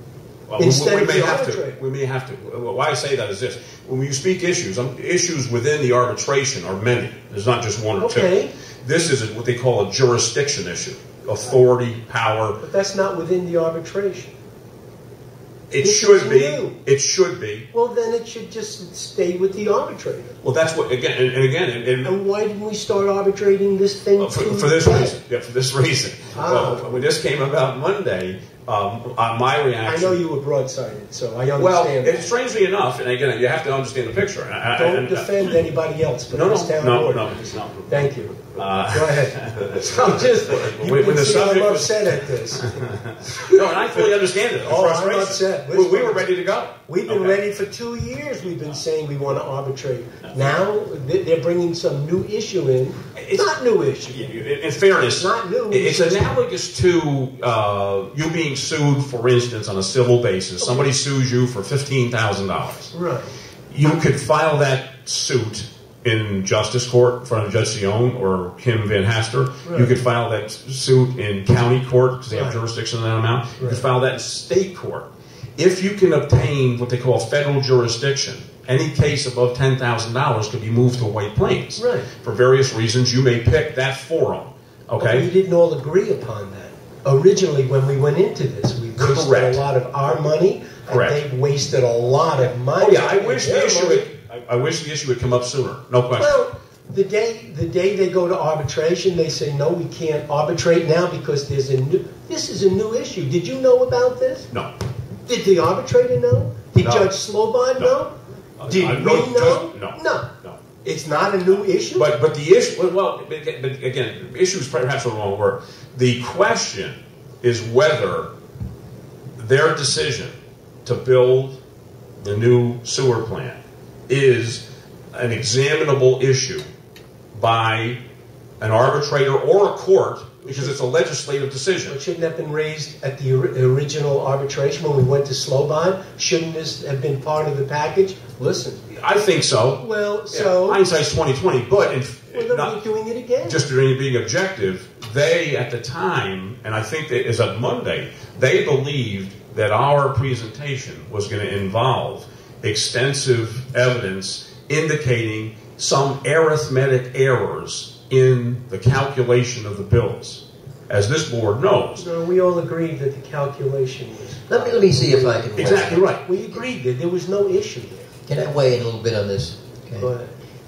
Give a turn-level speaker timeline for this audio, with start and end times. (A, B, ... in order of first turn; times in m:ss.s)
0:00.5-0:12.6 A
0:00.6-0:01.8 B
0:08.0-0:08.5 B
0:12.6-0:14.3 B
0:15.7-0:17.7 A
0:15.8-0:16.8 B
0:17.7-0:20.4 B
0:20.4-0:22.1 A
0:22.0-0:25.1 B
0:24.2-0:30.2 A
0:26.3-0:27.0 B
0:29.8-0:32.3 B
0:31.6-0:35.5 A
0:34.7-0:37.4 B
0:36.3-0:47.4 A
0:37.9-0:42.7 B
0:43.2-0:43.6 B
0:44.6-0:46.3 B
0:46.9-0:54.2 B
0:53.2-0:53.5 A
0:54.1-1:02.9 A
0:55.0-0:56.4 B
1:00.6-1:00.9 B
1:02.9-1:03.3 B
1:03.7-1:25.3 A
1:09.6-1:10.0 B
1:12.3-1:12.6 B
1:13.6-1:13.8 B
1:21.8-1:22.1 B
1:25.0-1:34.1 B
1:29.0-1:29.6 A
1:30.9-1:31.2 A
1:32.8-1:36.4 A
1:36.2-1:44.5 B
1:45.2-1:50.3 B
1:46.8-1:47.1 A
1:48.6-1:50.6 A
1:50.8-1:52.1 B
1:51.9-1:58.3 A
1:59.4-2:01.6 A
2:02.2-2:06.7 A
2:07.3-2:08.0 A
2:08.6-2:12.0 A
2:11.9-2:18.8 B
2:18.9-2:22.8 A
2:19.8-2:20.8 B
2:22.3-2:23.6 B
2:23.4-2:42.0 A
2:42.0-2:48.1 B
2:44.5-2:46.1 C
2:45.5-2:46.2 A
2:48.2-2:50.1 C
2:50.0-2:50.3 B